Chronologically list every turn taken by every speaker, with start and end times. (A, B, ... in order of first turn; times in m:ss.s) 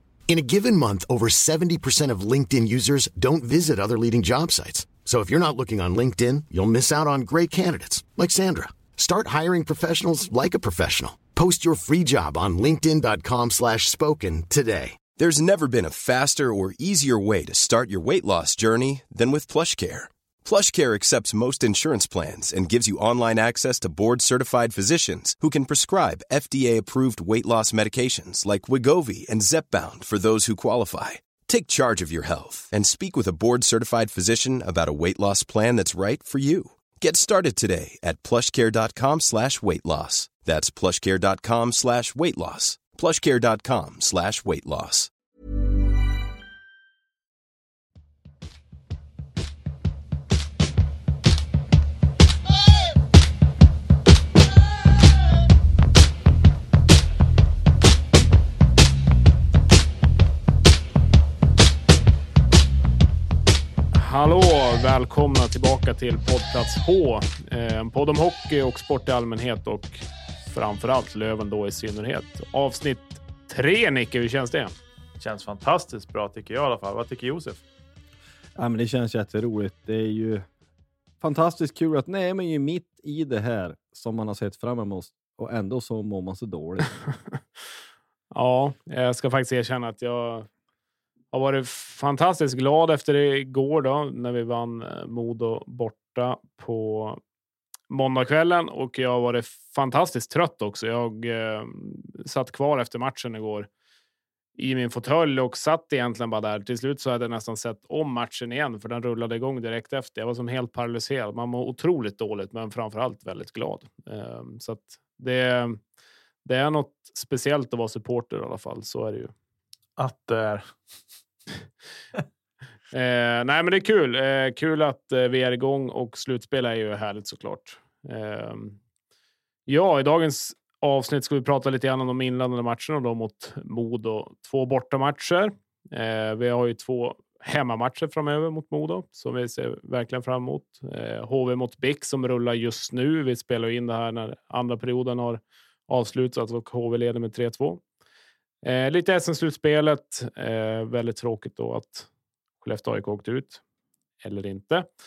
0:00.3-0:15.0 A
0:15.2-0:45.1 B
1:03.9-1:14.7 C
1:15.2-1:17.6 D
1:18.6-1:20.5 E
1:21.2-1:27.1 E
1:28.3-1:30.5 C
1:31.3-1:37.2 C
1:37.9-1:43.7 C
1:44.6-1:55.8 C
1:56.4-1:59.3 C
2:00.0-2:00.7 D
2:02.9-2:08.8 C
2:09.7-2:27.8 C
2:28.6-2:32.1 C
2:32.6-2:33.6 C
2:34.2-2:34.9 C